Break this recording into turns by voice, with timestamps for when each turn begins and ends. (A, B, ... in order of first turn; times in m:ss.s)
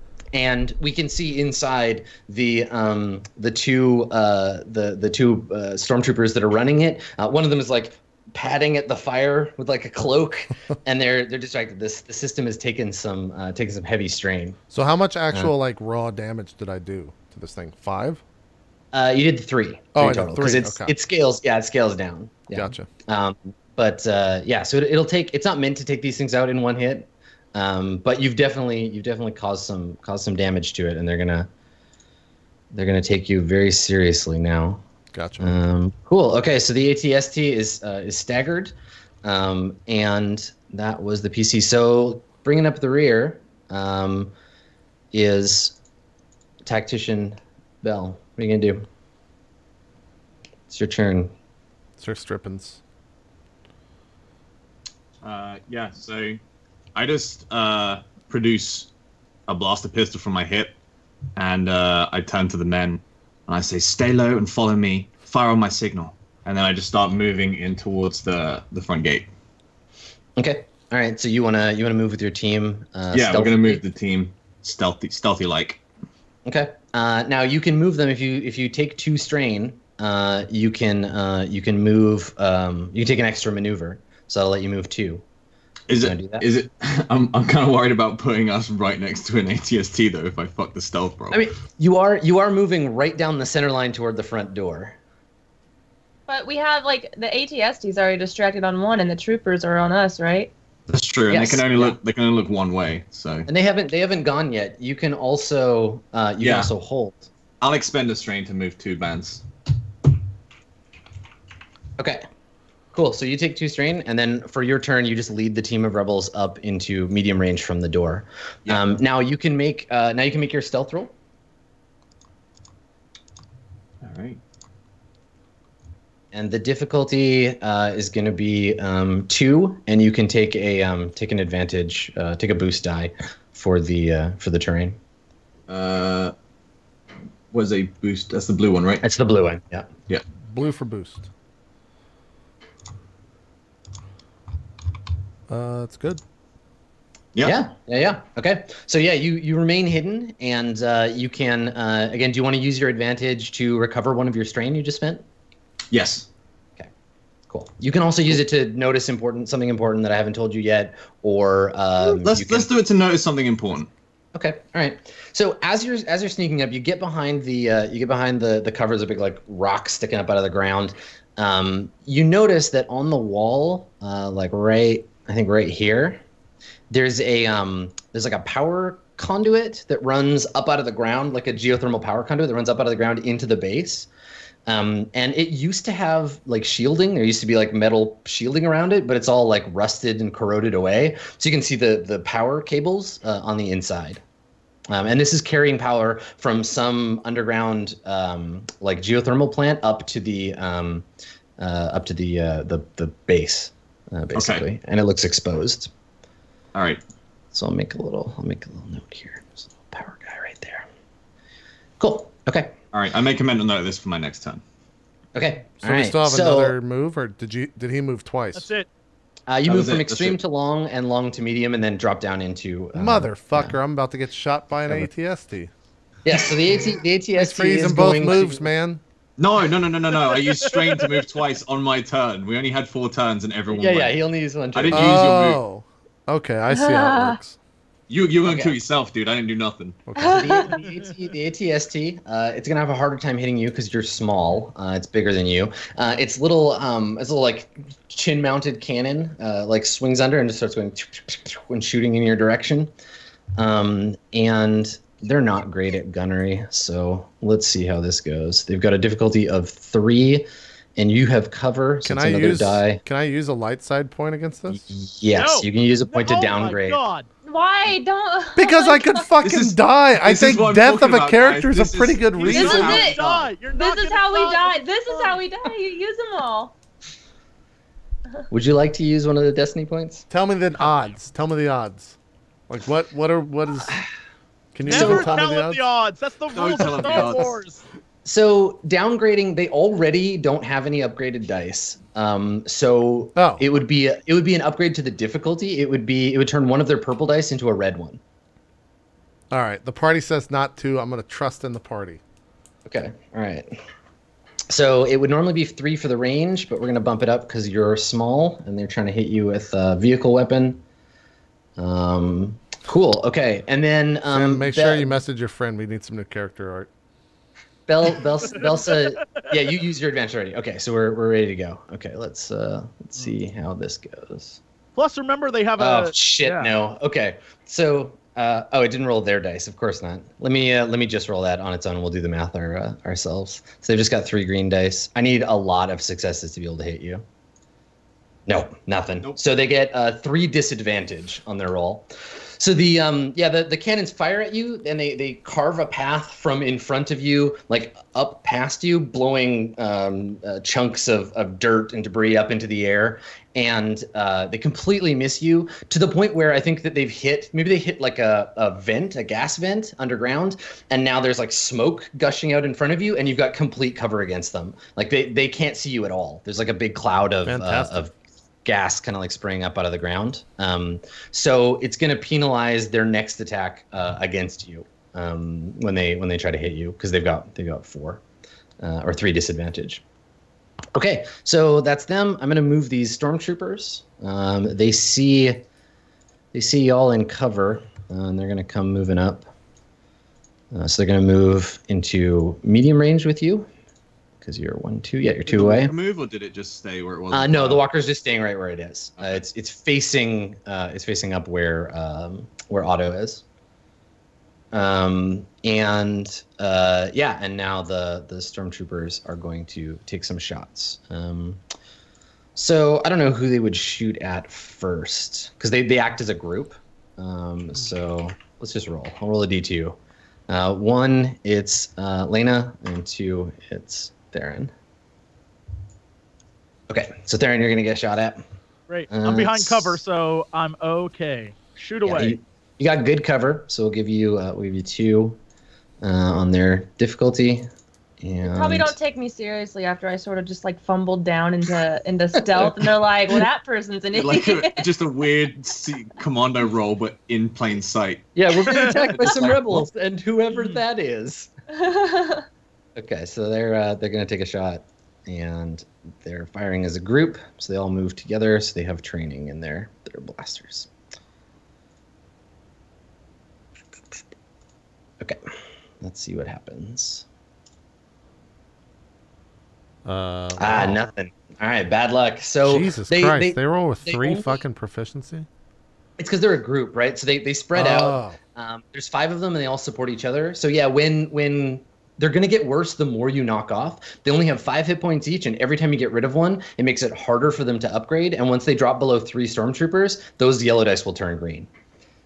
0:00.3-0:14.6 A
0:14.7-0:18.2 B
0:18.9-0:31.5 A
0:20.0-0:20.9 B
0:22.5-0:22.9 B
0:32.7-0:34.8 A
0:35.1-0:35.5 B
0:35.4-0:44.3 A
0:45.1-0:45.8 A
0:46.6-0:48.9 A
0:50.7-0:51.3 A
0:52.0-0:52.8 B
0:55.2-0:56.4 C
0:57.0-0:58.9 C
0:59.5-1:00.8 C
1:01.4-1:09.3 C
1:10.4-1:13.8 A
1:13.1-1:15.8 C
1:16.4-1:25.2 A
1:25.9-1:31.4 C
1:26.0-1:26.4 A
1:31.3-1:35.0 A
1:36.3-1:40.5 D
1:40.9-1:43.5 C
1:41.3-1:42.0 A
1:43.5-1:47.3 A
1:46.4-1:46.7 C
1:47.6-1:49.4 C
1:52.0-1:52.2 A
1:52.9-2:01.1 A
2:04.0-2:04.4 C
2:06.3-2:15.0 A
2:15.7-2:16.3 C
2:17.5-2:19.0 C
2:19.0-2:19.9 A
2:20.5-2:21.3 B
2:25.5-2:26.2 B
2:27.4-2:35.2 A
2:35.9-2:36.3 C
2:37.5-2:42.7 A
2:42.0-2:43.9 C
2:44.3-2:56.2 A
2:56.9-3:04.1 A
3:04.7-3:14.2 A
3:14.9-3:21.1 A
3:21.6-3:25.9 A
3:24.4-3:24.7 C
3:26.7-3:27.0 C
3:27.5-3:30.9 A
3:32.0-3:32.8 A
3:32.9-3:34.6 C
3:35.4-3:36.8 A
3:35.8-3:38.7 B
3:38.6-3:38.9 E
3:39.5-3:43.8 A
3:39.7-3:40.4 C
3:43.0-3:45.7 B
3:46.2-3:48.7 A
3:47.4-3:49.0 B
3:49.4-3:54.2 C
3:50.3-3:51.2 E
3:53.7-3:55.4 A
3:54.7-3:55.6 C
3:54.9-3:57.6 B
3:56.7-3:57.4 D
3:58.1-4:00.1 C
3:58.4-3:58.8 A
4:00.1-4:00.5 B
4:00.2-4:00.7 D
4:00.2-4:12.9 A
4:13.6-4:23.0 A
4:22.0-4:24.8 B
4:24.7-4:27.0 A
4:25.4-4:27.3 E
4:27.4-4:29.2 D
4:28.6-4:33.1 B
4:29.4-4:33.5 C
4:32.5-4:35.4 E
4:32.5-4:33.2 D
4:33.7-4:36.7 D
4:38.5-4:40.3 A
4:40.3-4:42.2 B
4:42.7-4:44.0 B
4:44.7-4:45.8 B
4:44.8-4:47.8 E
4:44.9-4:45.4 A
4:46.5-4:47.6 C
4:48.2-4:58.2 A
4:53.4-4:53.6 B
4:59.5-5:02.2 B
5:02.9-5:03.8 A
5:04.7-5:10.8 A
5:11.8-5:15.1 A
5:14.3-5:16.9 B
5:17.9-5:24.6 A
5:18.5-5:19.5 E
5:25.0-5:26.7 E
5:25.8-5:37.2 A
5:38.5-6:08.1 A
6:07.5-6:08.0 B
6:08.6-6:18.2 A
6:18.8-6:20.0 A
6:20.9-6:25.7 A
6:26.5-6:29.5 A
6:30.7-6:33.7 A
6:34.4-6:35.9 A
6:35.5-6:37.8 C
6:37.3-6:43.4 A
6:44.7-6:51.6 A
6:52.6-7:00.0 A
7:00.5-7:04.7 A
7:06.9-7:08.4 A
7:08.9-7:12.4 E
7:09.1-7:10.0 A
7:12.0-7:15.4 A
7:16.0-7:17.7 A
7:18.2-7:19.0 A
7:18.4-7:24.9 D
7:22.4-7:22.9 A
7:24.1-7:29.8 C
7:28.4-7:31.5 A
7:31.7-7:32.4 D
7:33.0-7:40.9 A
7:46.0-7:47.2 A
7:50.0-7:51.0 B
7:50.6-7:54.6 A
7:52.6-7:55.5 B
7:56.2-8:11.7 A
7:57.8-7:58.4 B